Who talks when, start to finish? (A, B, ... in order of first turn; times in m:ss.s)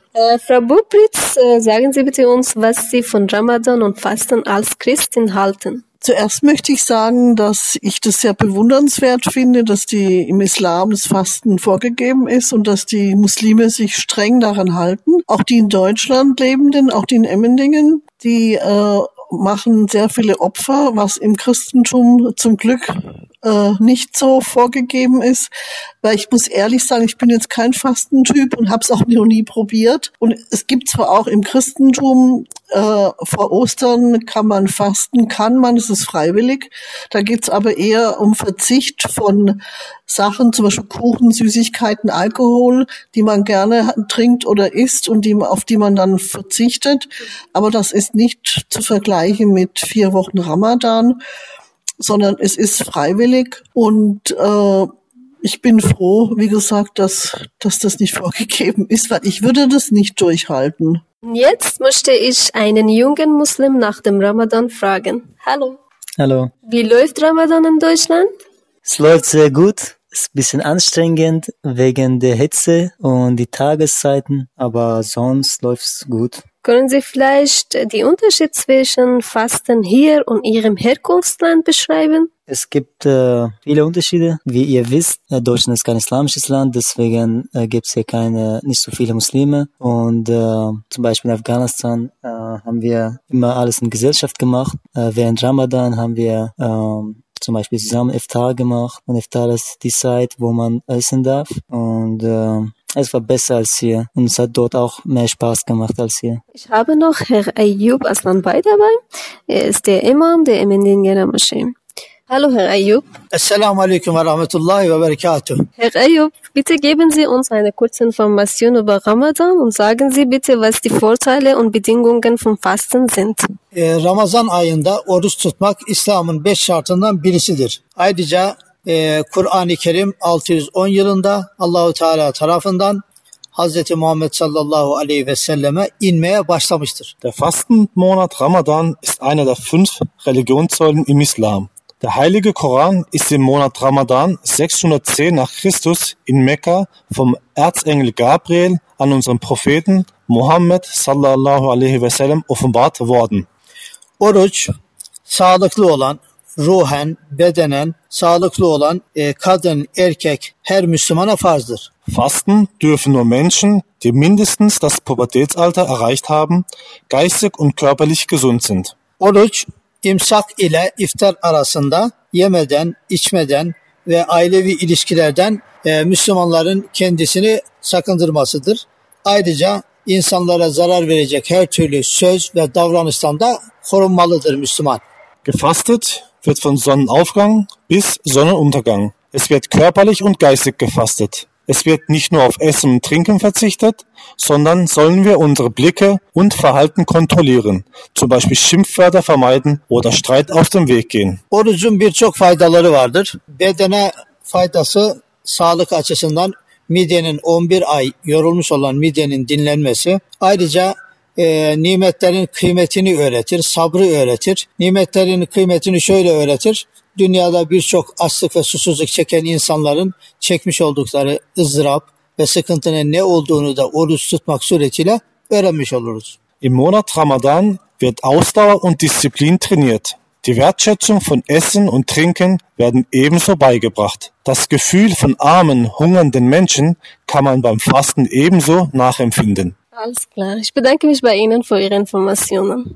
0:00.1-0:05.8 A
0:06.0-0:25.5 B
0:26.0-0:51.2 B
0:52.0-0:54.9 B
0:55.4-1:01.0 B
1:01.2-1:05.8 A
1:06.2-1:06.5 C
1:06.7-1:08.3 A
1:08.8-1:16.4 C
1:16.6-1:22.3 A
1:22.5-1:46.4 C
1:46.5-1:51.8 A
1:52.3-1:53.1 A
1:53.3-1:55.6 D
1:55.8-2:03.5 A
2:03.7-2:13.0 D
2:13.5-2:17.1 D
2:17.2-2:33.5 E
2:34.2-2:34.7 D
2:35.3-2:41.9 D
2:42.1-2:48.9 E
2:49.2-3:05.0 D
3:05.4-3:21.4 E
3:21.5-3:46.4 D
3:46.6-3:59.7 E
3:59.9-4:02.8 A